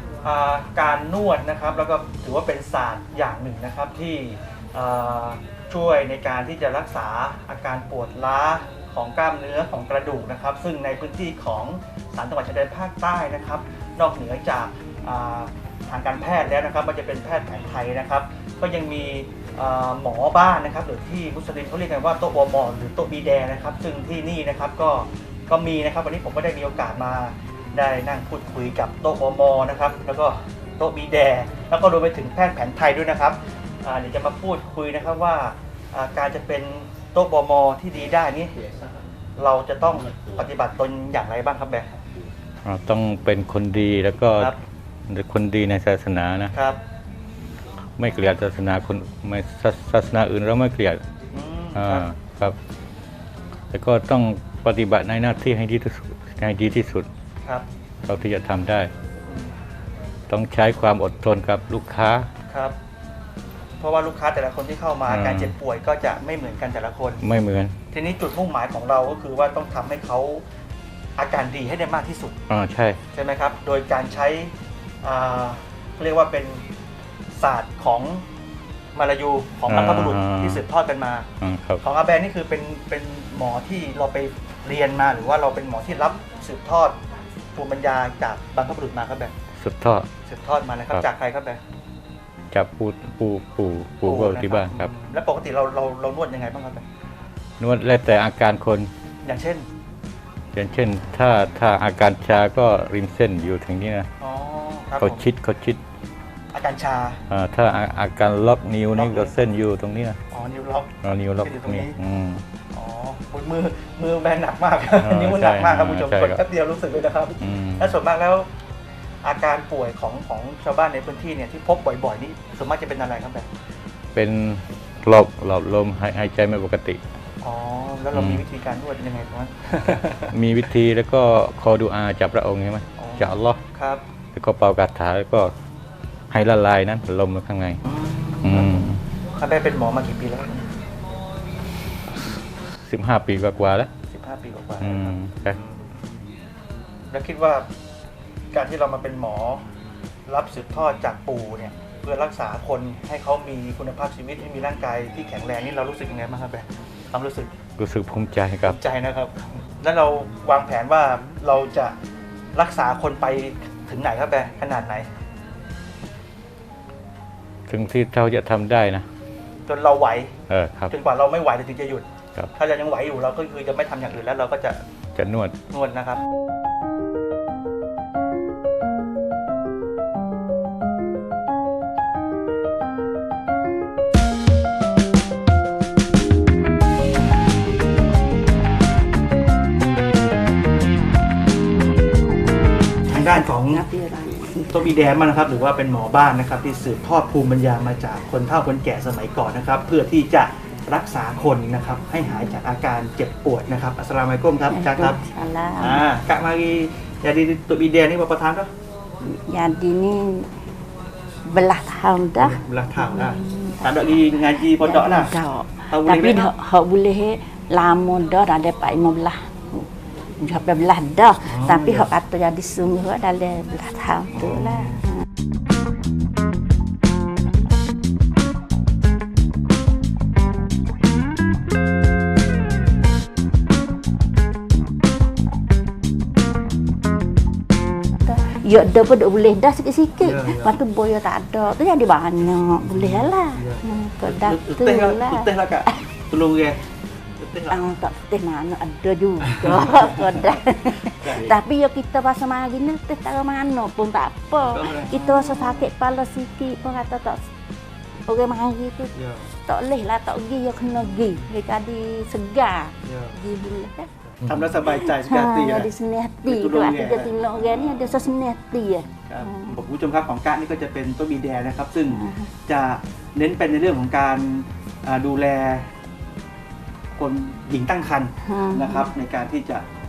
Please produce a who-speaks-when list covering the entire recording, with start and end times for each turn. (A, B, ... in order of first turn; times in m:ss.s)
0:00.2-0:38.6 A
0:39.4-0:41.9 A
0:42.6-0:44.5 B
0:45.1-0:46.5 B
0:46.5-0:46.8 A
0:48.0-0:51.0 B
0:51.3-0:52.1 A
0:51.8-0:52.6 B
0:53.7-0:57.1 B
0:58.0-0:58.9 B
1:00.3-1:02.3 B
1:02.5-1:02.8 A
1:03.8-1:07.2 A
1:05.1-1:05.5 B
1:07.2-1:07.8 B
1:07.9-1:10.4 A
1:11.2-1:12.4 A
1:12.5-1:13.0 B
1:13.1-1:16.6 A
1:17.4-1:18.2 A
1:18.9-1:21.3 A
1:19.7-1:20.6 B
1:21.4-1:21.8 B
1:21.8-1:27.0 A
1:27.5-1:29.3 A
1:29.6-1:30.1 B
1:30.3-1:31.6 A
1:32.5-1:34.9 B
1:34.1-1:36.9 A
1:37.6-1:38.9 B
1:39.2-1:39.7 A
1:40.5-1:44.1 B
1:44.2-1:45.2 A
1:45.0-1:45.8 B
1:46.5-1:47.2 A
1:47.3-1:50.2 B
1:49.0-1:49.4 A
1:50.3-1:52.0 A
1:51.0-1:52.4 B
1:52.7-1:58.5 A
1:55.0-1:56.4 B
1:57.4-1:57.9 B
1:59.2-2:03.5 A
2:04.1-2:07.0 B
2:07.4-2:10.3 A
2:08.1-2:08.4 B
2:10.3-2:13.6 B
2:13.0-2:14.0 A
2:14.4-2:15.5 B
2:16.3-2:17.8 B
2:17.8-2:18.8 A
2:18.4-2:19.0 B
2:19.4-2:20.7 A
2:22.7-2:23.9 B
2:24.1-2:25.7 A
2:24.8-2:25.6 B
2:27.1-2:27.7 A
2:28.5-2:29.6 A
2:30.3-2:37.5 A
2:37.8-2:38.8 B
2:38.6-2:42.0 A
2:42.5-2:45.1 A
2:47.7-2:49.1 B
2:49.7-2:50.4 A
2:50.5-2:50.9 B
2:50.9-2:54.8 A
2:55.2-2:55.6 B
2:55.7-2:56.2 A
3:13.1-3:13.8 A
3:13.1-3:15.0 C
3:14.7-3:25.2 A
3:24.7-3:26.0 C
3:25.8-3:28.7 A
3:29.2-3:30.5 C
3:31.5-3:39.9 C
3:32.4-3:35.4 A
3:35.9-3:36.5 A
3:40.4-3:45.0 C
3:41.4-3:42.1 A
3:44.4-3:45.0 A
3:58.2-4:06.0 C
4:00.2-4:00.8 A
4:02.9-4:06.8 A
4:07.4-4:07.8 A
4:07.7-4:17.4 C
4:09.6-4:10.4 A
4:11.2-4:11.5 A
4:14.7-4:15.9 A
4:18.3-4:24.1 C
4:19.2-4:19.5 A
4:21.0-4:21.5 A
4:23.0-4:23.4 A
4:24.4-4:25.9 A
4:24.9-4:29.8 C
4:26.4-4:27.9 A
4:29.3-4:35.9 A
4:32.1-4:32.5 C
4:37.2-4:39.8 A
4:38.4-4:39.1 C